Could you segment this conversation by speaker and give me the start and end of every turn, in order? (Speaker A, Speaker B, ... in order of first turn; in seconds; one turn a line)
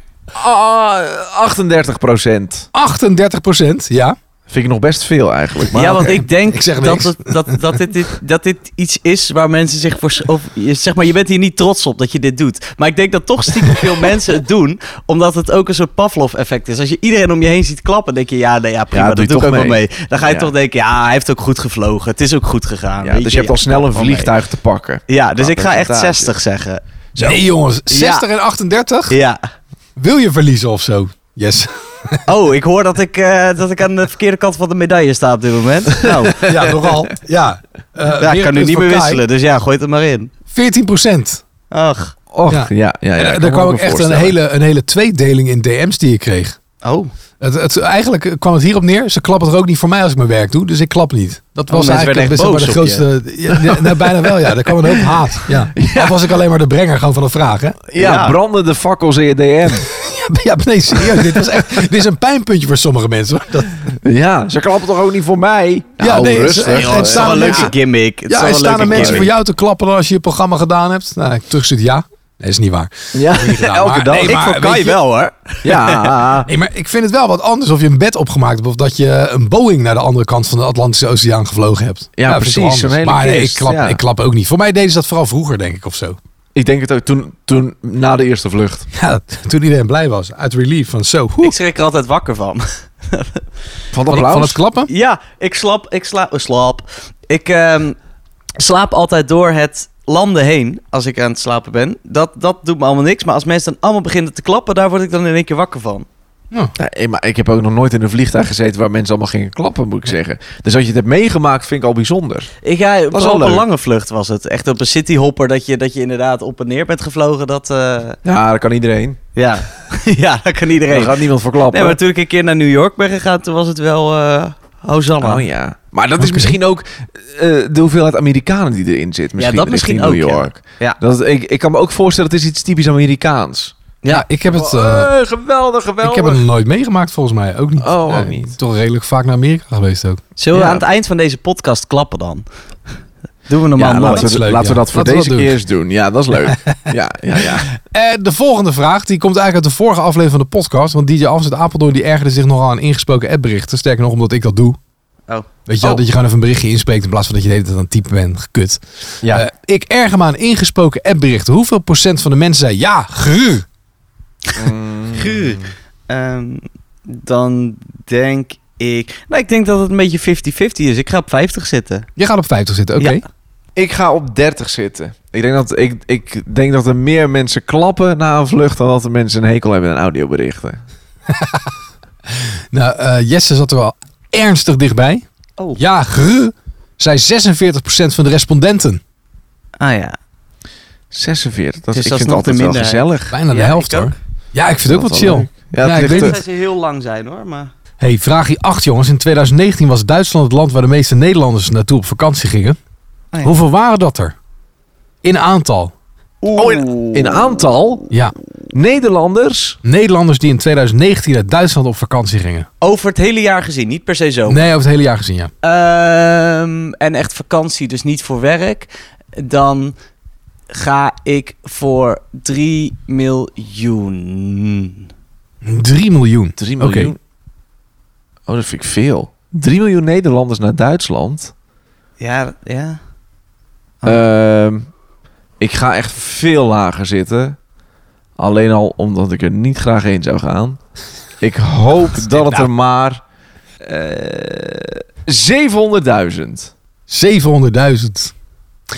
Speaker A: 0.3-2.7
Speaker B: 2.7-4.2
Speaker A: 4.5-6.2
Speaker C: 5.7-24.3
Speaker B: 6.5-7.6
Speaker A: 18.9-20.5
Speaker A: 23.0-26.3
Speaker C: 25.1-28.2
Speaker B: 27.2-29.2
Speaker C: 29.1-29.4
Speaker B: 30.0-32.2
Speaker C: 32.3-36.5
Speaker A: 36.0-36.9
Speaker B: 36.4-39.2
Speaker C: 38.2-40.3
Speaker B: 40.5-41.4
Speaker C: 41.7-42.1
Speaker A: 42.3-44.4
Speaker B: 42.5-46.6
Speaker C: 46.8-47.1
Speaker B: 47.4-57.8
Speaker C: 51.7-53.1
Speaker A: 55.8-56.2
Speaker A: 57.9-59.9
Speaker C: 58.0-58.4
Speaker B: 60.0-63.8
Speaker A: 63.9-67.7
Speaker B: 66.0-67.7
Speaker C: 66.6-69.3
Speaker B: 68.3-75.0
Speaker A: 68.8-69.3
Speaker A: 73.1-74.5
Speaker C: 74.3-76.2
Speaker A: 75.6-76.5
Speaker B: 76.5-86.2
Speaker A: 82.2-84.0
Speaker A: 86.5-88.8
Speaker B: 88.9-91.5
Speaker C: 91.4-93.4
Speaker A: 93.9-94.6
Speaker B: 94.1-94.9
Speaker C: 94.9-98.0
Speaker C: 98.6-106.1
Speaker A: 106.8-112.5
Speaker C: 112.6-118.2
Speaker A: 113.1-113.7
Speaker A: 118.2-119.2
Speaker C: 119.4-125.5
Speaker A: 120.9-122.0
Speaker A: 125.2-133.8
Speaker B: 126.2-126.6
Speaker C: 129.4-131.0
Speaker B: 134.1-135.1
Speaker A: 134.5-136.4
Speaker B: 136.0-140.2
Speaker A: 137.8-138.6
Speaker C: 140.4-142.5
Speaker A: 140.5-140.8
Speaker C: 143.5-144.3
Speaker A: 143.8-147.7
Speaker B: 144.1-145.6
Speaker B: 147.9-154.8
Speaker B: 155.7-163.7
Speaker A: 164.6-165.7
Speaker C: 165.2-172.1
Speaker B: 172.2-173.2
Speaker A: 173.8-180.8
Speaker B: 181.3-181.6
Speaker B: 182.7-185.2
Speaker B: 185.8-189.0
Speaker C: 189.8-190.2
Speaker A: 191.1-193.3
Speaker C: 191.9-194.2
Speaker B: 193.3-196.4
Speaker A: 194.8-196.4
Speaker C: 196.0-197.7
Speaker B: 198.0-202.8
Speaker B: 203.4-204.3
Speaker B: 205.2-205.9
Speaker C: 206.4-207.6
Speaker A: 206.6-208.1
Speaker A: 208.7-209.8
Speaker B: 209.8-212.7
Speaker C: 212.8-214.6
Speaker B: 214.5-215.5
Speaker C: 215.6-219.9
Speaker C: 220.7-225.1
Speaker B: 225.6-227.1
Speaker A: 226.6-227.2
Speaker A: 228.5-231.5
Speaker C: 232.2-233.0
Speaker A: 234.0-234.9
Speaker A: 235.6-237.6
Speaker A: 238.4-240.8
Speaker A: 241.4-243.2
Speaker A: 243.8-246.7
Speaker B: 247.1-248.3